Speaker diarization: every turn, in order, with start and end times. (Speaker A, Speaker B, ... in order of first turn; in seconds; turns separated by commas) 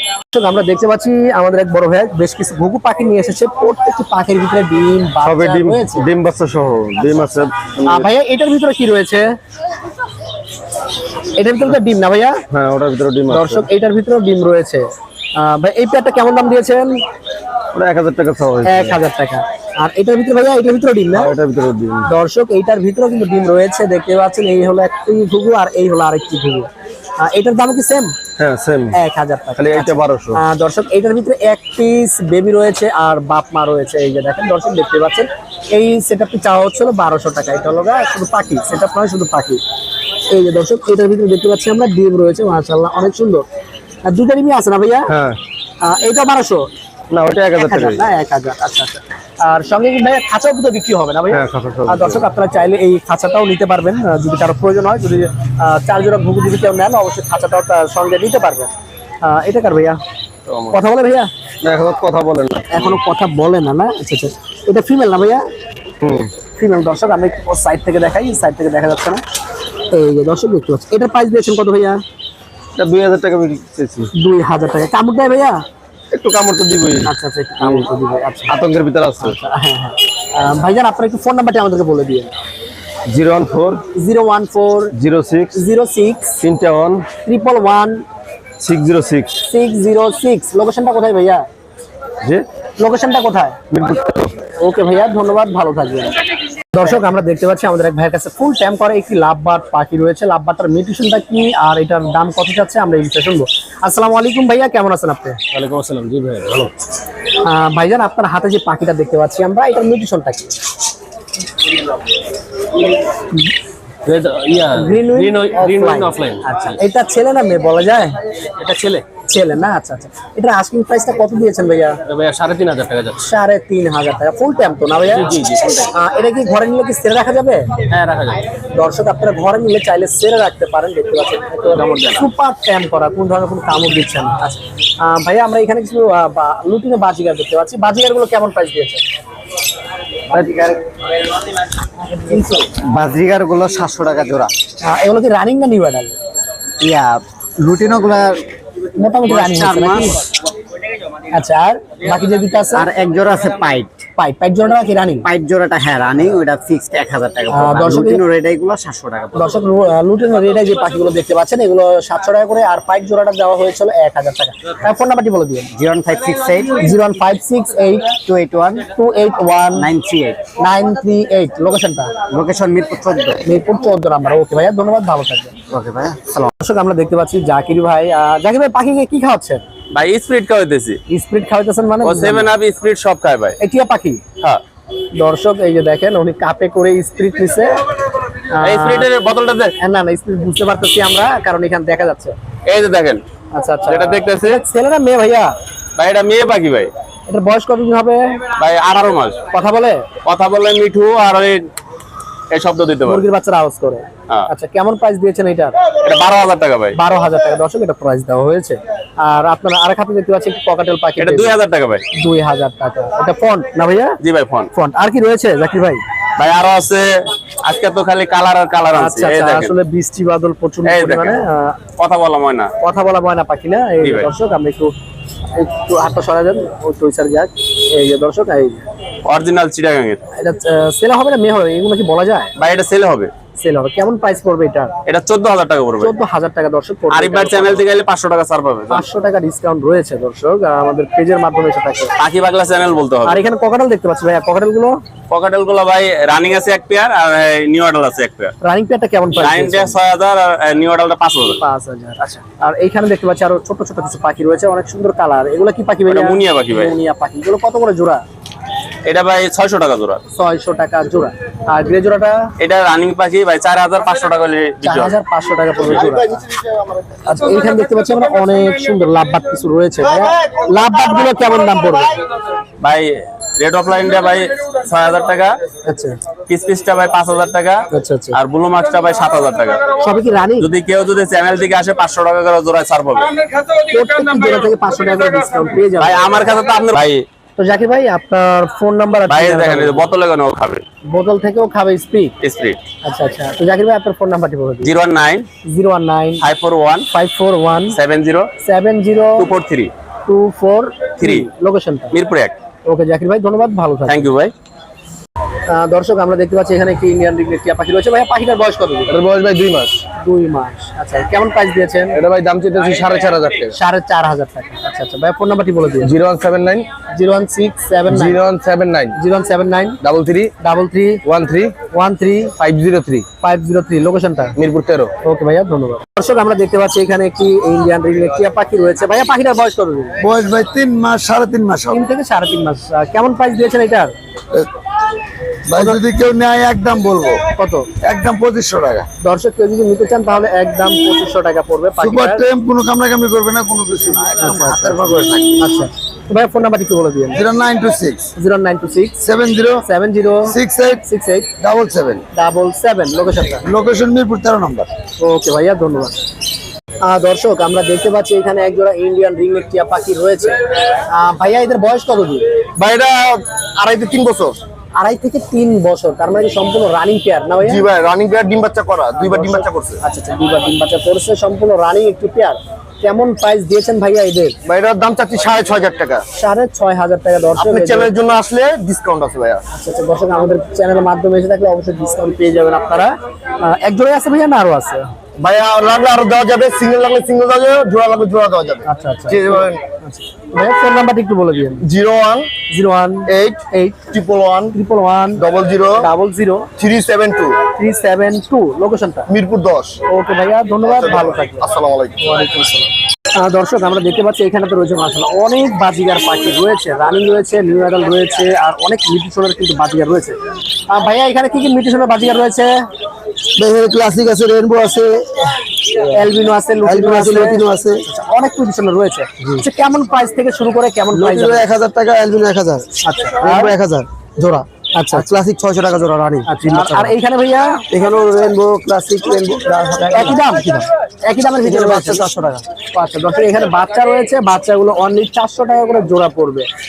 Speaker A: 0.3-6.1, Speaker B: 5.2-8.1, Speaker A: 7.0-9.3, Speaker A: 11.4-12.4, Speaker B: 12.5-13.7, Speaker A: 13.3-16.9, Speaker B: 17.7-19.0, Speaker A: 18.6-21.3, Speaker B: 21.1-22.1, Speaker A: 22.1-28.1, Speaker B: 28.4-29.0, Speaker A: 28.9-39.6, Speaker B: 29.6-30.4, Speaker A: 40.3-43.5, Speaker A: 44.1-45.1, Speaker B: 45.1-45.4, Speaker A: 45.8-46.7, Speaker B: 47.1-48.0, Speaker A: 47.5-58.7, Speaker B: 51.3-52.2, Speaker A: 59.2-60.0, Speaker B: 60.5-60.7, Speaker A: 60.7-61.3, Speaker B: 61.6-63.0, Speaker A: 62.7-65.4, Speaker B: 66.0-66.3, Speaker A: 66.6-69.2, Speaker A: 69.9-72.0, Speaker B: 72.8-74.1, Speaker A: 74.2-75.6, Speaker B: 76.1-77.1, Speaker A: 77.0-78.5, Speaker B: 77.6-77.9, Speaker B: 78.5-79.3, Speaker A: 79.2-82.3, Speaker B: 83.1-83.8, Speaker A: 83.9-84.9, Speaker B: 85.0-85.5, Speaker A: 85.5-86.4, Speaker B: 86.4-87.0, Speaker A: 87.2-88.0, Speaker B: 88.6-89.3, Speaker A: 89.4-91.4, Speaker A: 92.8-93.6, Speaker B: 93.7-94.3, Speaker A: 94.6-96.1, Speaker A: 96.7-105.4, Speaker B: 105.5-106.7, Speaker A: 107.4-110.5, Speaker B: 114.1-114.9, Speaker A: 114.7-118.1, Speaker C: 115.2-115.9, Speaker A: 118.7-122.0, Speaker C: 122.1-122.9, Speaker B: 122.7-123.1, Speaker A: 123.2-125.3, Speaker C: 125.2-125.9, Speaker A: 125.9-127.7, Speaker C: 127.9-128.4, Speaker A: 128.7-139.0, Speaker C: 131.7-132.3, Speaker D: 140.3-140.8, Speaker A: 142.1-142.7, Speaker D: 142.8-144.5, Speaker A: 144.8-146.1, Speaker D: 146.8-148.4, Speaker A: 149.0-150.2, Speaker D: 149.2-150.2, Speaker A: 151.3-152.9, Speaker D: 152.7-154.1, Speaker A: 154.2-155.3, Speaker D: 155.2-159.6, Speaker A: 157.5-158.2, Speaker A: 159.3-165.7, Speaker D: 165.7-166.8, Speaker A: 166.7-168.2, Speaker D: 168.2-168.9, Speaker A: 168.8-169.9, Speaker D: 169.8-170.4, Speaker A: 170.6-172.1, Speaker D: 172.3-173.4, Speaker A: 173.4-175.5, Speaker D: 175.7-176.5, Speaker A: 176.6-179.6, Speaker C: 179.9-181.0, Speaker A: 181.1-182.5, Speaker C: 182.0-183.6, Speaker A: 183.6-184.2, Speaker A: 185.2-187.8, Speaker A: 188.6-189.1, Speaker C: 188.6-189.8, Speaker A: 189.8-192.3, Speaker C: 192.7-193.2, Speaker A: 193.5-195.5, Speaker C: 193.9-194.6, Speaker C: 196.0-196.9, Speaker A: 197.3-198.4, Speaker C: 198.6-199.4, Speaker A: 199.5-200.1, Speaker C: 200.2-201.7, Speaker C: 202.5-203.2, Speaker A: 203.1-205.8, Speaker C: 206.0-207.0, Speaker A: 206.9-211.6, Speaker C: 211.2-212.1, Speaker A: 212.2-214.2, Speaker C: 214.2-214.7, Speaker A: 214.7-216.0, Speaker C: 216.4-217.1, Speaker C: 217.6-219.7, Speaker A: 218.9-221.8, Speaker C: 220.8-221.4, Speaker C: 222.0-222.7, Speaker A: 222.8-224.9, Speaker C: 224.0-224.3, Speaker A: 225.6-228.8, Speaker C: 229.2-230.2, Speaker A: 230.4-232.5, Speaker C: 232.6-233.3, Speaker A: 233.6-234.9, Speaker C: 235.1-236.1, Speaker A: 236.0-237.8, Speaker C: 237.1-239.1, Speaker A: 238.9-242.1, Speaker C: 242.2-243.4, Speaker A: 243.2-245.0, Speaker C: 245.3-248.5, Speaker A: 248.6-250.0, Speaker C: 249.4-251.6, Speaker A: 251.6-258.2, Speaker C: 256.1-256.9, Speaker C: 259.1-260.2, Speaker A: 260.3-262.5, Speaker C: 262.6-265.1, Speaker A: 264.8-266.4, Speaker C: 265.8-266.1, Speaker E: 266.5-266.8, Speaker A: 267.3-272.2, Speaker C: 272.8-275.5, Speaker A: 275.9-276.2, Speaker C: 276.5-279.9, Speaker A: 277.9-278.4, Speaker A: 280.0-280.7, Speaker C: 280.6-283.4, Speaker A: 283.9-286.5, Speaker C: 286.0-287.2, Speaker A: 287.6-290.1, Speaker C: 289.3-290.8, Speaker A: 291.1-292.4, Speaker C: 292.4-292.8, Speaker A: 293.0-294.9, Speaker C: 294.8-295.5, Speaker A: 295.6-296.5, Speaker C: 296.4-297.1, Speaker A: 297.1-298.0, Speaker C: 297.9-298.5, Speaker A: 298.6-299.5, Speaker C: 299.4-299.9, Speaker A: 300.3-302.1, Speaker C: 301.2-301.5, Speaker C: 302.1-302.5, Speaker A: 302.9-304.3, Speaker C: 304.1-304.5, Speaker A: 305.7-309.2, Speaker B: 309.1-310.0, Speaker A: 310.2-312.2, Speaker B: 312.2-313.7, Speaker A: 313.7-316.1, Speaker B: 316.0-316.9, Speaker A: 317.1-318.4, Speaker B: 318.1-319.1, Speaker A: 319.2-320.0, Speaker B: 320.0-320.5, Speaker A: 320.6-321.2, Speaker B: 321.3-321.7, Speaker A: 321.9-322.5, Speaker B: 322.6-323.2, Speaker A: 323.4-324.6, Speaker B: 324.6-325.1, Speaker A: 325.2-330.2, Speaker F: 330.2-332.0, Speaker A: 331.9-334.1, Speaker F: 335.7-337.4, Speaker A: 335.7-336.0, Speaker A: 337.6-337.9, Speaker F: 338.0-339.1, Speaker A: 339.2-342.5, Speaker F: 342.0-345.6, Speaker A: 344.4-347.4, Speaker F: 347.3-348.3, Speaker A: 348.4-349.2, Speaker F: 349.2-349.8, Speaker A: 349.9-351.5, Speaker F: 350.5-351.0, Speaker F: 351.6-352.2, Speaker A: 352.3-353.6, Speaker F: 353.6-354.9, Speaker A: 355.2-356.2, Speaker A: 357.0-360.6, Speaker A: 361.1-362.4, Speaker F: 362.8-364.5, Speaker E: 363.1-363.4, Speaker A: 365.0-367.8, Speaker E: 367.7-370.0, Speaker F: 367.8-368.5, Speaker A: 369.1-374.6, Speaker E: 374.7-376.2, Speaker A: 376.3-378.1, Speaker E: 377.6-379.6, Speaker A: 379.7-385.1, Speaker E: 385.4-389.8, Speaker A: 388.9-391.9, Speaker E: 391.8-392.5, Speaker A: 392.7-394.1, Speaker E: 393.3-393.6, Speaker E: 394.1-394.7, Speaker A: 394.7-396.7, Speaker E: 395.4-396.1, Speaker E: 396.8-397.6, Speaker A: 397.8-399.3, Speaker E: 399.3-400.0, Speaker A: 400.1-410.4, Speaker E: 401.1-402.1, Speaker A: 410.9-412.7, Speaker F: 413.6-416.1, Speaker A: 416.1-421.7, Speaker F: 416.9-418.0, Speaker F: 421.1-427.1, Speaker A: 423.0-423.8, Speaker A: 425.0-425.3, Speaker A: 426.5-427.8, Speaker F: 427.9-430.4, Speaker A: 430.1-436.7, Speaker F: 431.6-432.6